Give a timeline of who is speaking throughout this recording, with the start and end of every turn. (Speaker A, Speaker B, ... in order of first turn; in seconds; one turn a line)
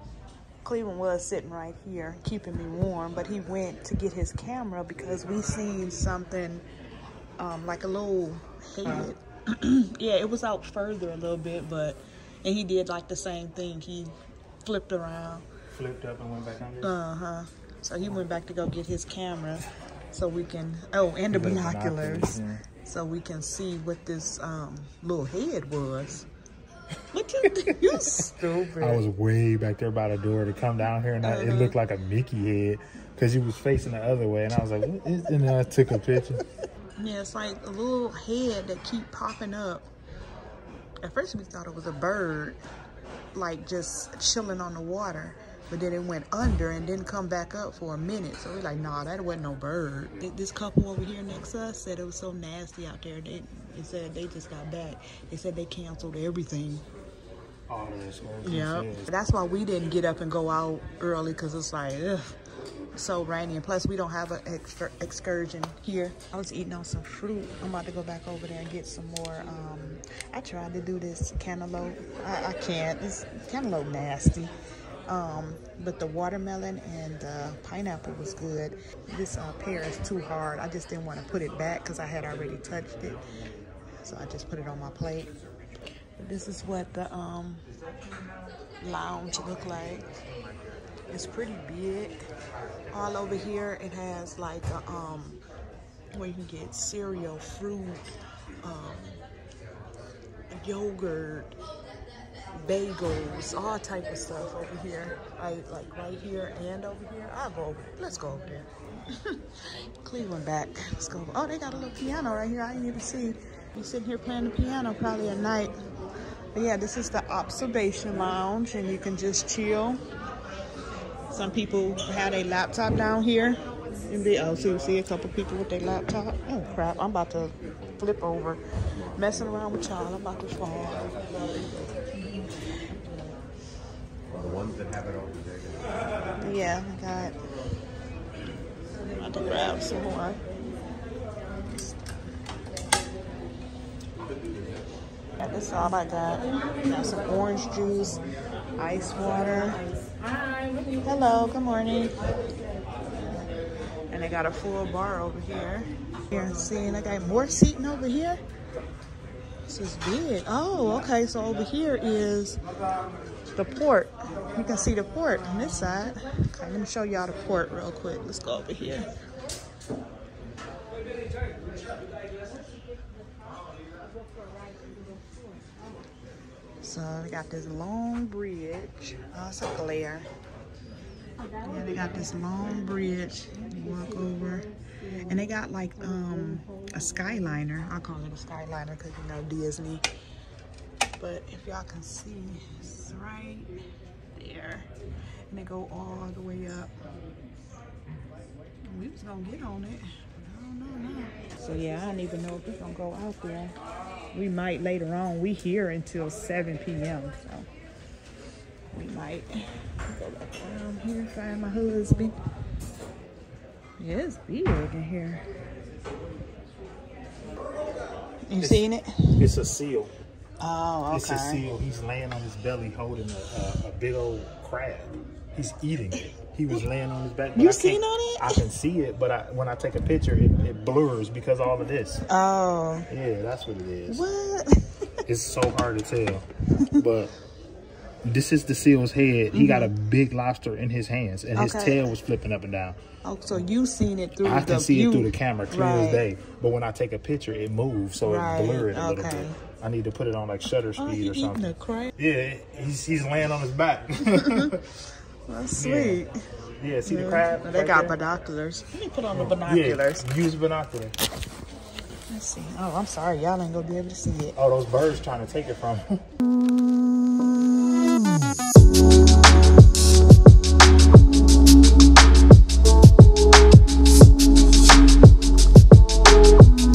Speaker A: 0.6-6.6
Speaker A: 7.4-15.4
Speaker B: 15.7-16.9
Speaker A: 16.8-26.3
Speaker B: 21.3-22.6
Speaker A: 27.1-29.0
Speaker B: 27.6-28.3
Speaker B: 28.8-36.4
Speaker A: 31.2-31.8
Speaker A: 37.0-39.9
Speaker A: 41.0-42.6
Speaker A: 43.3-56.8
Speaker B: 57.7-59.1
Speaker A: 58.4-62.3
Speaker A: 62.9-74.5
Speaker A: 75.1-83.2
Speaker A: 84.0-85.3
Speaker A: 86.2-87.7
Speaker A: 88.8-90.1
Speaker A: 91.1-92.3
Speaker A: 92.9-95.4
Speaker A: 96.1-99.2
Speaker A: 100.5-101.5
Speaker A: 102.6-109.4
Speaker A: 110.0-115.7
Speaker A: 116.5-120.0
Speaker A: 121.3-128.6
Speaker A: 129.2-132.1
Speaker A: 136.4-137.4
Speaker A: 139.1-140.4
Speaker A: 145.4-148.2
Speaker A: 148.8-149.8
Speaker A: 151.0-152.1
Speaker A: 154.1-158.4
Speaker A: 159.7-162.6
Speaker A: 163.6-169.1
Speaker A: 176.8-180.3
Speaker A: 181.6-184.7
Speaker A: 185.3-190.1
Speaker A: 191.2-193.7
Speaker A: 194.3-194.9
Speaker A: 195.5-196.9
Speaker A: 198.9-203.8
Speaker A: 204.3-207.7
Speaker A: 208.9-212.3
Speaker A: 214.0-215.4
Speaker A: 218.5-219.4
Speaker B: 218.6-218.8
Speaker B: 219.4-220.1
Speaker A: 220.6-221.6
Speaker B: 221.1-232.2
Speaker A: 227.6-228.6
Speaker A: 232.3-233.1
Speaker B: 233.1-234.2
Speaker A: 234.1-234.9
Speaker B: 235.3-237.3
Speaker B: 238.2-243.0
Speaker A: 239.5-239.9
Speaker A: 241.6-242.1
Speaker A: 243.2-246.2
Speaker B: 244.4-254.9
Speaker A: 248.2-249.6
Speaker A: 251.0-252.1
Speaker A: 255.5-256.3
Speaker B: 255.8-256.2
Speaker B: 256.8-258.2
Speaker A: 257.1-260.2
Speaker B: 259.3-261.2
Speaker A: 262.3-264.6
Speaker B: 264.6-266.2